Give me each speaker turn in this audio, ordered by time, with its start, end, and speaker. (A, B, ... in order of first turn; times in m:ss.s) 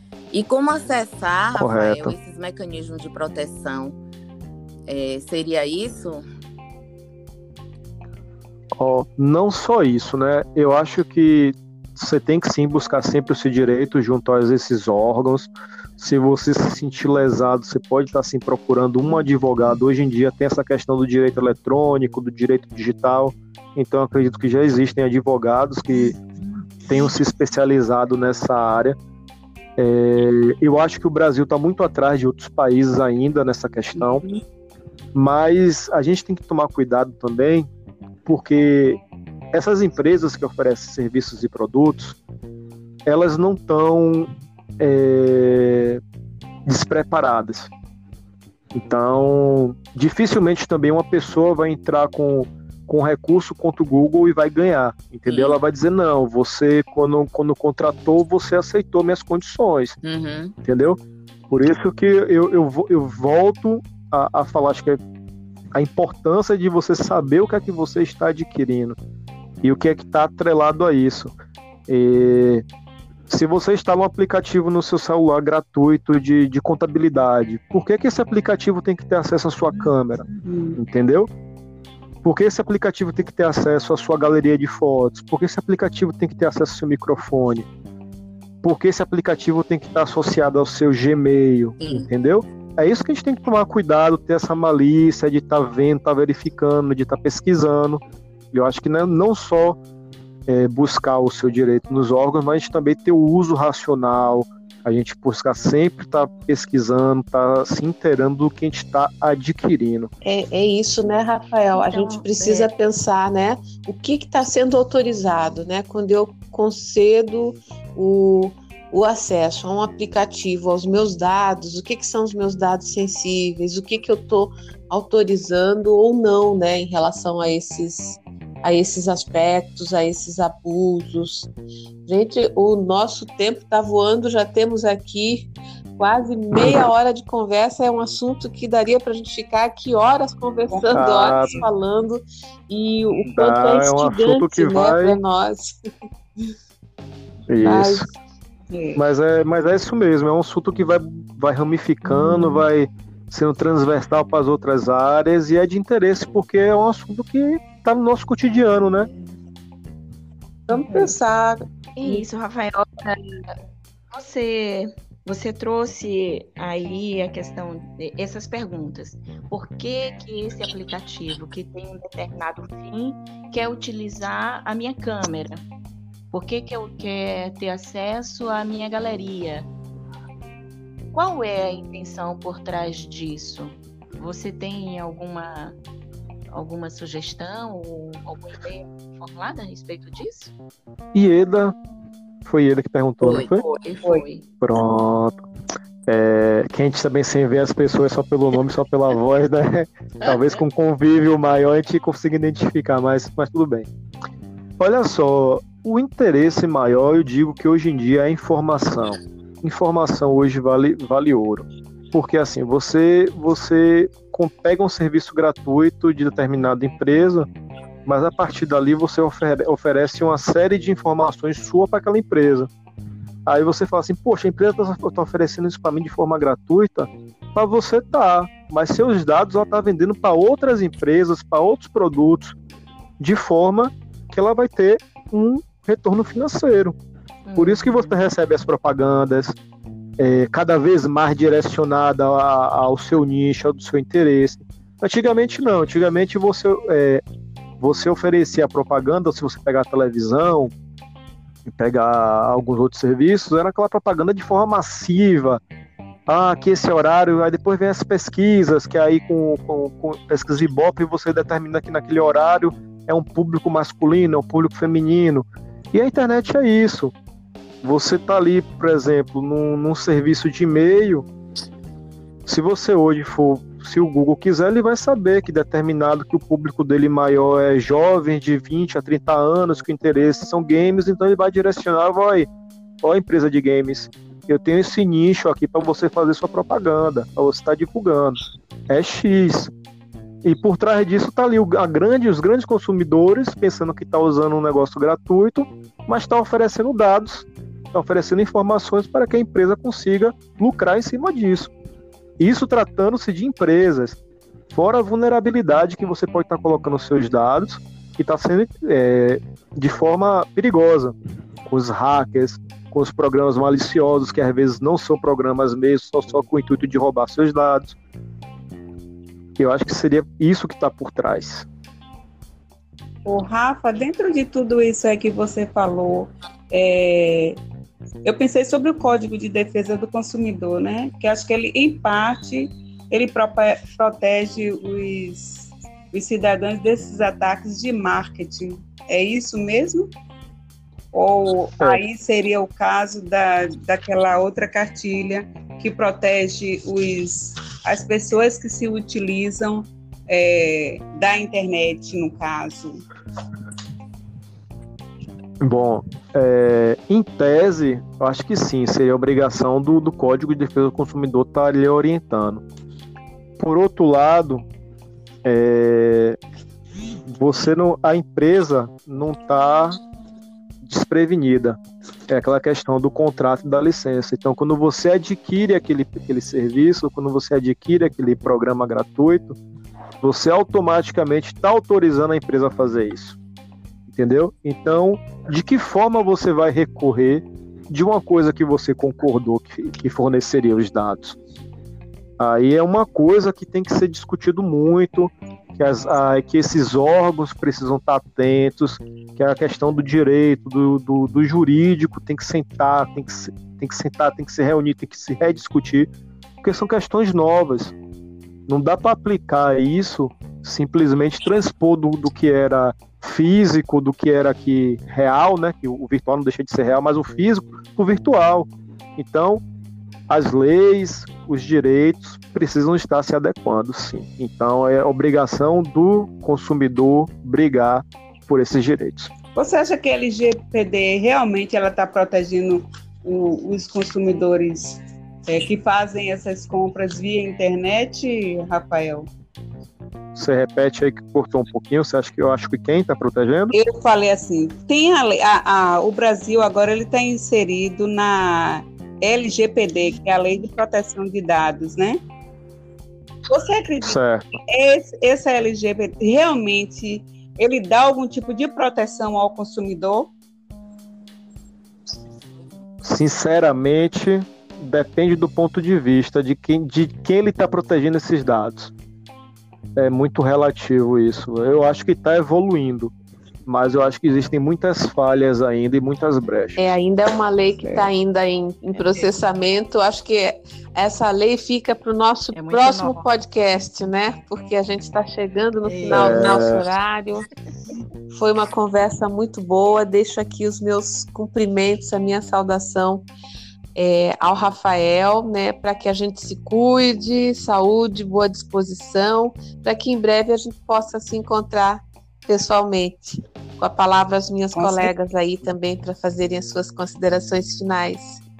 0:00.3-0:04.0 A
0:01.6-0:02.1 B
0:04.9-0:06.2 A
0:08.8-0:26.2 B
0:26.9-0:29.0 B
0:29.8-0:34.2 B
0:35.1-0:37.7 B
0:38.2-0:39.0 B
0:39.5-0:42.2 B
0:43.0-0:46.0 B
0:46.6-0:47.7 B
0:48.7-1:00.0 B
0:55.3-0:55.6 A
1:00.0-1:00.5 A
1:00.6-1:01.0 B
1:01.5-1:05.0 B
1:05.7-1:09.0 B
1:09.6-1:11.3 B
1:11.9-1:12.6 B
1:13.3-1:21.3 B
1:20.4-1:20.8 C
1:22.2-1:27.7 B
1:28.6-1:39.8 B
1:31.8-1:32.1 A
1:40.5-1:50.1 B
1:50.2-2:11.5 D
1:51.8-1:52.7 E
2:12.0-2:25.7 D
2:16.6-2:16.8 B
2:20.7-2:21.0 C
2:20.9-2:21.6 B
2:23.2-2:25.2 B
2:27.5-2:28.1 B
2:27.6-2:28.1 D
2:28.7-2:29.0 C
2:29.0-2:39.1 B
2:40.7-2:42.2 D
2:40.7-2:41.1 C
2:42.0-2:43.5 E
2:44.1-2:55.6 E
2:56.3-2:59.7 E
3:01.1-3:05.8 E
3:06.5-3:10.5 E
3:11.1-3:11.8 B
3:12.4-3:13.6 B
3:13.2-3:14.4 E
3:14.6-3:15.4 B
3:16.1-3:23.9 B
3:24.8-3:37.5 B
3:38.0-3:42.7 B
3:43.4-3:52.5 B
3:53.2-3:56.9 B
3:57.4-3:58.2 E
3:57.6-3:59.5 B
4:00.2-4:07.2 B
4:07.8-4:10.7 B
4:11.6-4:15.6 B
4:16.3-4:27.1 B
4:27.8-4:31.2 B
4:32.4-4:42.5 B
4:43.0-4:49.7 B
4:50.4-5:01.7 B
5:02.4-5:04.2 B
5:04.7-5:11.1 B
5:11.6-5:17.9 B
5:19.6-5:21.7 B
5:23.2-5:27.6 C
5:28.2-5:40.1 C
5:41.1-5:53.0 C
5:55.6-6:02.6 B
6:03.6-6:04.6 B
6:05.4-6:06.4 B
6:07.3-6:10.0 B
6:10.8-6:19.6 B
6:20.2-6:23.4 B
6:24.1-6:31.4 B
6:32.4-6:46.1 B
6:46.6-6:47.9 B
6:48.7-6:59.6 B
7:00.3-7:09.3 B
7:09.5-7:19.3 C
7:20.3-7:23.7 B
7:23.7-7:32.2 C
7:33.5-7:40.3 C
7:34.0-7:34.4 B
7:43.0-7:48.9 B
7:50.0-7:53.1 B
7:53.6-7:56.9 B
7:56.8-8:07.5 D
7:57.8-7:58.1 C
7:58.9-7:59.3 E
8:02.5-8:03.3 E
8:05.8-8:06.8 E
8:06.1-8:06.8 B
8:08.3-8:13.3 D
8:13.9-8:28.4 D
8:24.7-8:25.1 C